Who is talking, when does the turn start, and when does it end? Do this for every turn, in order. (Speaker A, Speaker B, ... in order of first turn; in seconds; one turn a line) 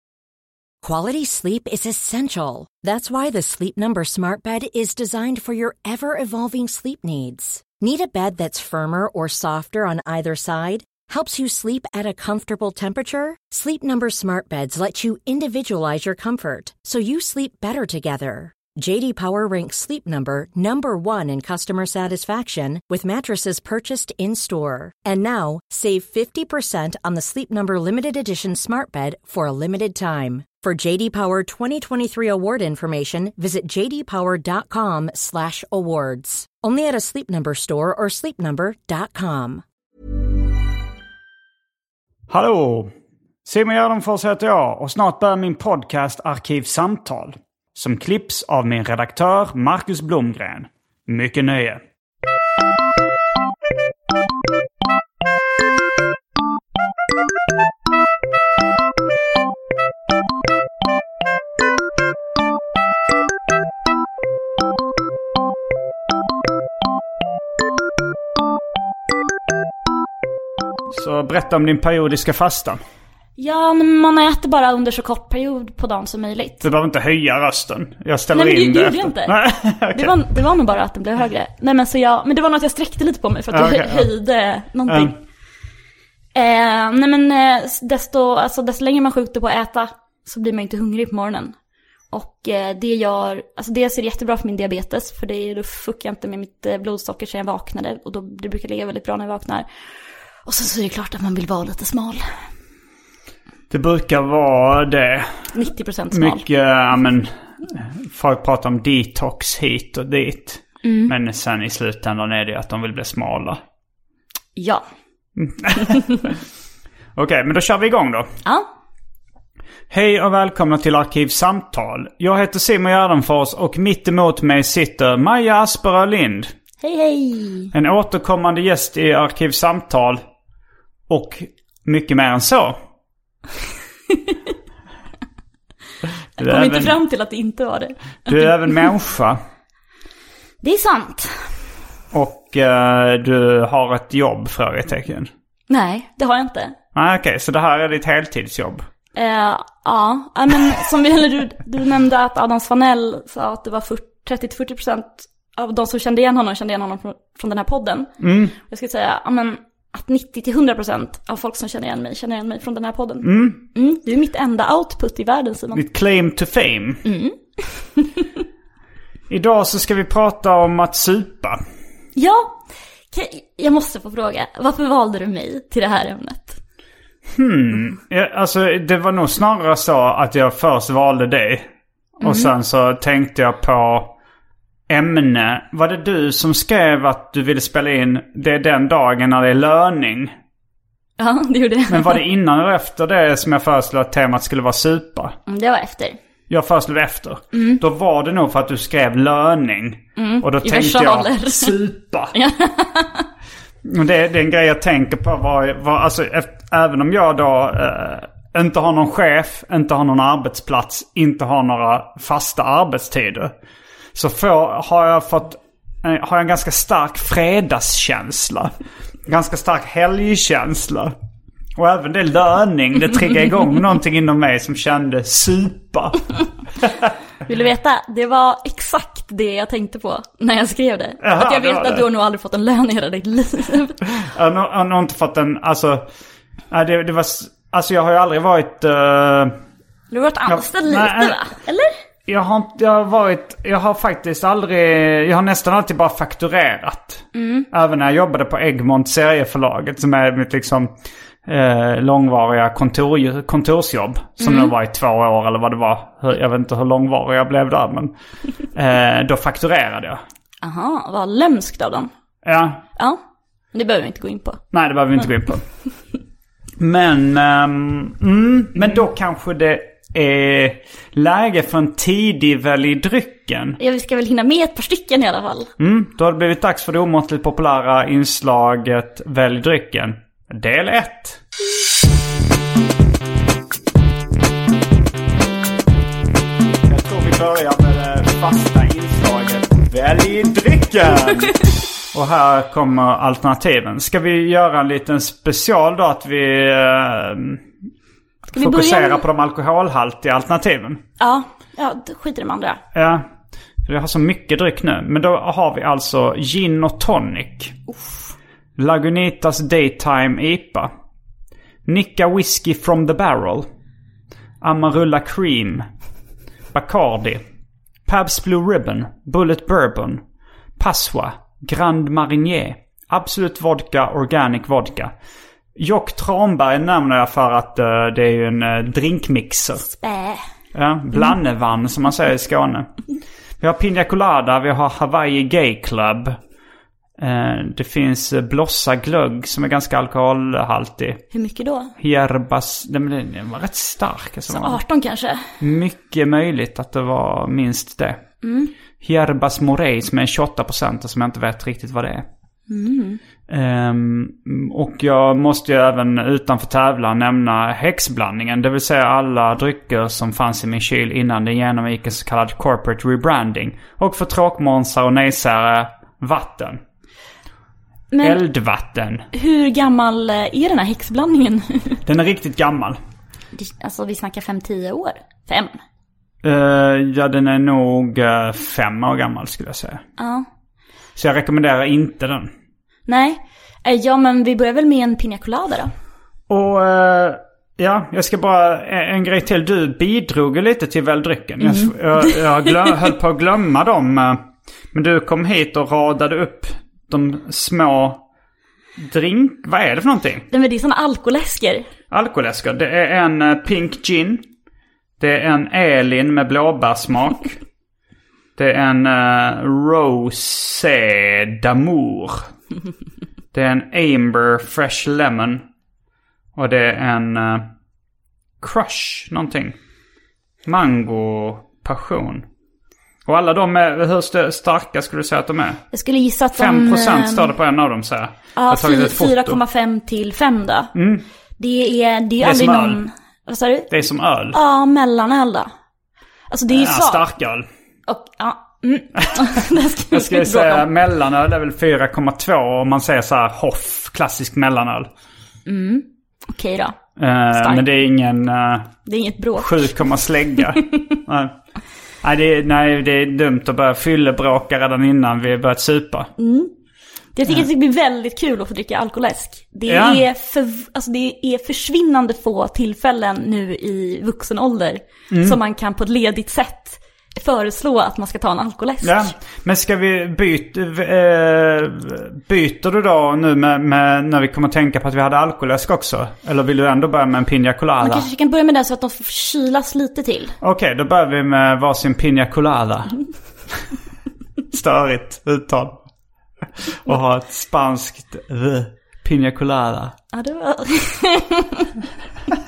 Speaker A: 0.8-39.6
Speaker B: 42.3-42.9
Speaker B: 43.5-51.8
Speaker B: 70.9-72.8
Speaker C: 73.4-76.7
Speaker B: 76.6-80.1
Speaker C: 78.3-79.3
Speaker C: 79.9-85.2
Speaker B: 83.5-84.1
Speaker B: 84.9-85.1
Speaker C: 86.3-91.5
Speaker C: 92.1-99.7
Speaker C: 100.5-102.2
Speaker B: 103.7-105.4
Speaker C: 105.5-106.4
Speaker B: 106.1-113.6
Speaker C: 110.8-111.1
Speaker C: 114.5-114.8
Speaker B: 115.4-116.4
Speaker B: 117.1-118.3
Speaker B: 119.9-126.5
Speaker C: 126.8-127.7
Speaker B: 127.7-130.2
Speaker B: 131.1-132.8
Speaker B: 136.4-137.0
Speaker C: 136.4-138.5
Speaker B: 138.3-139.4
Speaker C: 140.6-141.4
Speaker B: 142.1-145.3
Speaker C: 145.7-146.7
Speaker B: 146.9-148.8
Speaker C: 149.2-165.8
Speaker B: 158.2-158.6
Speaker B: 163.2-163.6
Speaker B: 165.7-167.0
Speaker C: 167.0-168.2
Speaker B: 169.3-171.6
Speaker C: 172.2-172.6
Speaker C: 173.1-176.6
Speaker B: 177.3-181.7
Speaker B: 182.2-184.1
Speaker C: 182.2-182.5
Speaker B: 184.9-190.3
Speaker C: 191.2-192.2
Speaker B: 191.9-195.4
Speaker C: 195.5-196.2
Speaker B: 196.5-202.3
Speaker C: 197.5-197.8
Speaker C: 200.2-201.8
Speaker C: 202.3-203.2
Speaker B: 203.8-213.5
Speaker B: 214.1-218.7
Speaker B: 219.2-221.1
Speaker B: 221.8-226.2
Speaker C: 227.4-234.0
Speaker B: 231.2-232.0
Speaker B: 234.2-236.0
Speaker B: 236.7-239.5
Speaker C: 240.1-241.9
Speaker B: 240.5-241.4
Speaker B: 242.3-250.9
Speaker C: 247.3-247.7
Speaker B: 251.5-258.1
Speaker C: 254.4-254.7
Speaker B: 258.7-260.2
Speaker C: 260.6-262.1
Speaker B: 262.4-262.8
Speaker C: 263.7-264.6
Speaker B: 264.7-265.6
Speaker B: 266.8-273.8
Speaker C: 273.8-275.7
Speaker B: 275.8-281.4
Speaker B: 286.9-297.6
Speaker C: 298.5-299.2
Speaker B: 298.6-301.0
Speaker C: 301.2-302.8
Speaker B: 302.9-303.2
Speaker B: 303.8-307.8
Speaker C: 307.9-308.2
Speaker B: 308.8-310.9
Speaker B: 311.9-313.7
Speaker B: 314.6-315.9
Speaker B: 316.7-317.4
Speaker B: 318.1-320.2
Speaker B: 320.8-325.1
Speaker B: 325.8-329.8
Speaker C: 329.8-330.4
Speaker B: 330.7-332.9
Speaker B: 333.6-336.4
Speaker B: 337.2-341.2
Speaker C: 341.3-341.9
Speaker B: 342.0-344.8
Speaker C: 344.5-345.4
Speaker B: 345.6-348.2
Speaker C: 348.4-348.7
Speaker B: 349.0-352.2
Speaker C: 352.7-353.2
Speaker B: 353.5-366.8
Speaker C: 368.1-368.4
Speaker B: 368.2-369.3
Speaker C: 369.3-372.0
Speaker B: 372.1-373.0
Speaker C: 373.5-375.7
Speaker B: 376.4-380.0
Speaker C: 380.2-380.4
Speaker B: 381.1-382.5
Speaker C: 383.1-385.9
Speaker B: 386.5-394.4
Speaker C: 391.6-393.0
Speaker B: 394.9-398.2
Speaker B: 399.0-400.5
Speaker C: 400.5-401.9
Speaker B: 402.1-404.4
Speaker B: 405.2-407.6
Speaker B: 408.6-412.4
Speaker B: 413.5-415.6
Speaker B: 416.6-417.7
Speaker B: 418.6-419.8
Speaker B: 420.6-422.4
Speaker B: 423.2-425.8
Speaker C: 425.9-427.5
Speaker B: 426.5-429.6
Speaker C: 428.6-430.9
Speaker B: 430.9-431.2
Speaker C: 431.6-433.9
Speaker B: 432.4-433.0
Speaker B: 433.9-434.6
Speaker C: 434.5-435.7
Speaker C: 436.5-437.2
Speaker B: 436.7-437.7
Speaker C: 438.1-440.9
Speaker B: 440.1-445.1
Speaker C: 445.6-447.0
Speaker B: 447.2-448.9
Speaker C: 447.5-447.8
Speaker C: 449.1-450.1
Speaker B: 449.6-451.5
Speaker B: 452.2-456.3
Speaker C: 456.4-456.7
Speaker C: 457.4-469.3
Speaker B: 459.9-460.2
Speaker B: 465.3-465.6
Speaker B: 469.0-478.3
Speaker C: 478.0-480.5
Speaker B: 480.6-483.2
Speaker B: 484.7-486.0
Speaker B: 486.8-490.1
Speaker C: 490.3-491.9